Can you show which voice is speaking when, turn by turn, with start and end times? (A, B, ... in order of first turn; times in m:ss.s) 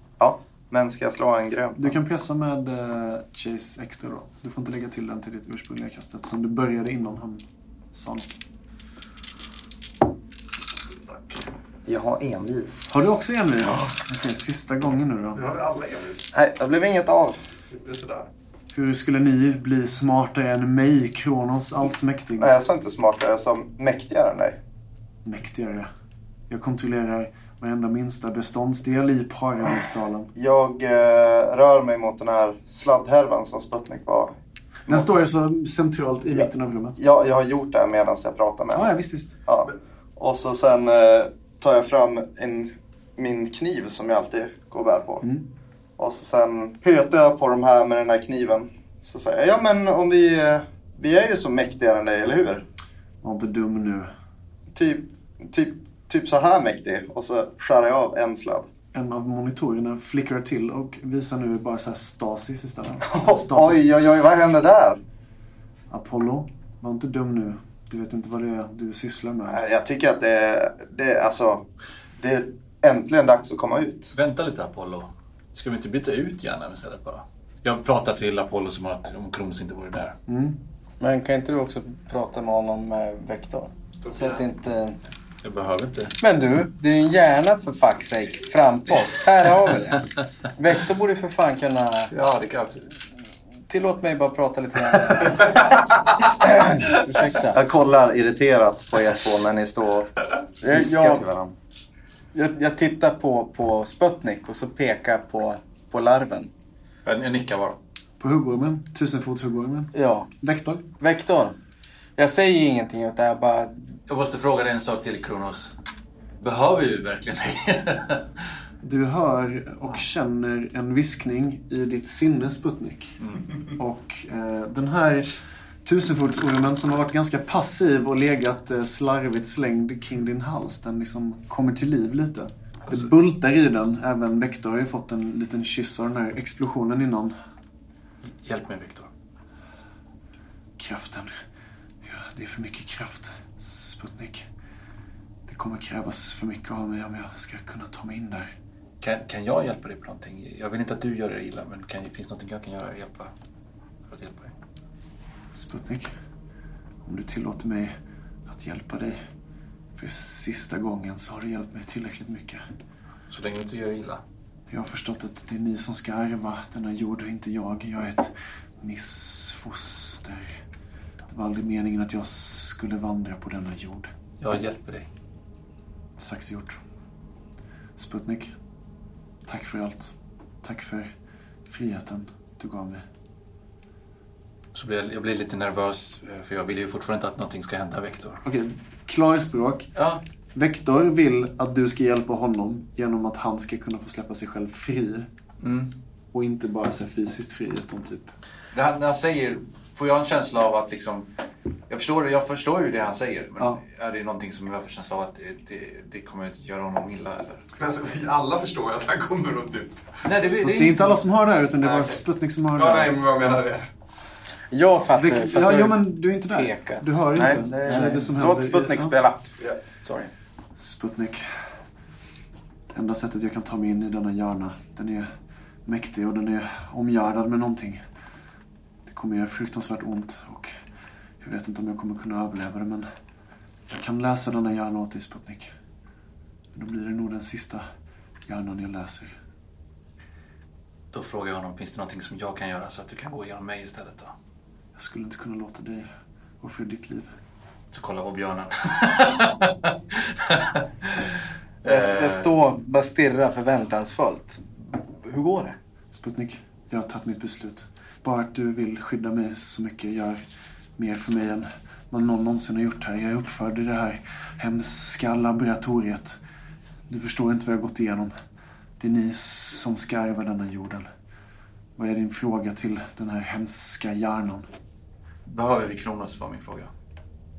0:00.2-0:02.0 A
0:01.8-0:08.3 B
0:11.1-0:11.4 C
0:11.8-0:12.9 A
0:12.9-0:15.4 B
0:15.3-0:16.3 C
0:16.3-0:17.4 A
0:17.7-0:18.3 C
0:18.7-0:22.5 B
0:22.4-0:24.6 A
0:25.2-0:25.9 B
0:26.5-0:30.3 B
0:30.3-0:34.3 A
0:34.9-0:37.0 B
0:36.3-0:38.9 A
0:38.7-0:39.4 B
0:39.4-0:45.2 A
0:46.0-0:52.6 A
0:53.2-0:54.1 B
0:54.7-0:58.7 A
0:58.9-1:03.9 B
1:03.1-1:05.0 A
1:05.9-1:09.6 B
1:09.5-1:11.6 A
1:12.2-1:14.1 A
1:14.1-1:20.2 D
1:20.3-1:20.6 B
1:21.0-1:25.0 E
1:25.4-1:26.2 D
1:26.2-1:32.1 E
1:32.1-1:32.9 D
1:33.7-1:37.6 E
1:37.5-1:40.1 A
1:40.6-1:41.2 E
1:40.7-1:41.5 A
1:42.3-1:46.5 E
1:47.0-1:47.8 D
1:48.2-1:50.8 B
1:49.9-1:50.3 E
1:51.0-1:51.6 E
1:52.2-1:53.8 E
1:54.1-1:55.7 D
1:56.4-1:58.4 D
1:58.8-2:03.2 B
2:03.8-2:05.3 B
2:05.8-2:17.4 B
2:18.3-2:19.1 D
2:20.8-2:21.4 B
2:22.0-2:24.5 B
2:25.5-2:28.5 B
2:29.0-2:33.3 D
2:34.1-2:34.5 D
2:35.5-2:36.1 B
2:37.0-2:37.9 B
2:38.4-2:39.2 B
2:39.9-2:42.6 B
2:43.3-2:44.2 D
2:44.7-2:50.6 B
2:51.3-2:54.1 B
2:54.4-2:55.1 D
2:56.2-2:56.8 B
2:58.0-2:58.5 B
2:59.4-3:01.1 B
3:01.7-3:03.0 B
3:04.7-3:08.4 D
3:08.4-3:09.9 B
3:10.0-3:10.2 D
3:10.5-3:15.3 B
3:15.6-3:15.9 D
3:16.3-3:18.3 B
3:18.7-3:21.3 D
3:21.9-3:27.6 D
3:27.8-3:30.0 C
3:30.2-3:31.2 D
3:30.6-3:33.2 B
3:31.8-3:32.2 C
3:32.8-3:33.8 C
3:34.7-3:39.4 E
3:35.1-3:39.1 B
3:37.6-3:38.0 A
3:40.0-3:40.3 E
3:40.8-3:41.5 B
3:42.9-3:45.3 B
3:45.8-3:48.0 B
3:49.0-3:50.8 B
3:51.4-3:53.1 B
3:53.9-3:55.7 B
3:56.7-3:57.8 B
3:58.4-3:59.3 B
4:01.1-4:04.3 D
4:04.9-4:06.1 B
4:06.6-4:07.3 B
4:07.9-4:12.5 D
4:11.8-4:15.8 E
4:16.1-4:20.4 B
4:21.0-4:26.4 B
4:27.1-4:28.3 B
4:29.0-4:31.1 B
4:32.0-4:34.6 B
4:35.4-4:36.9 D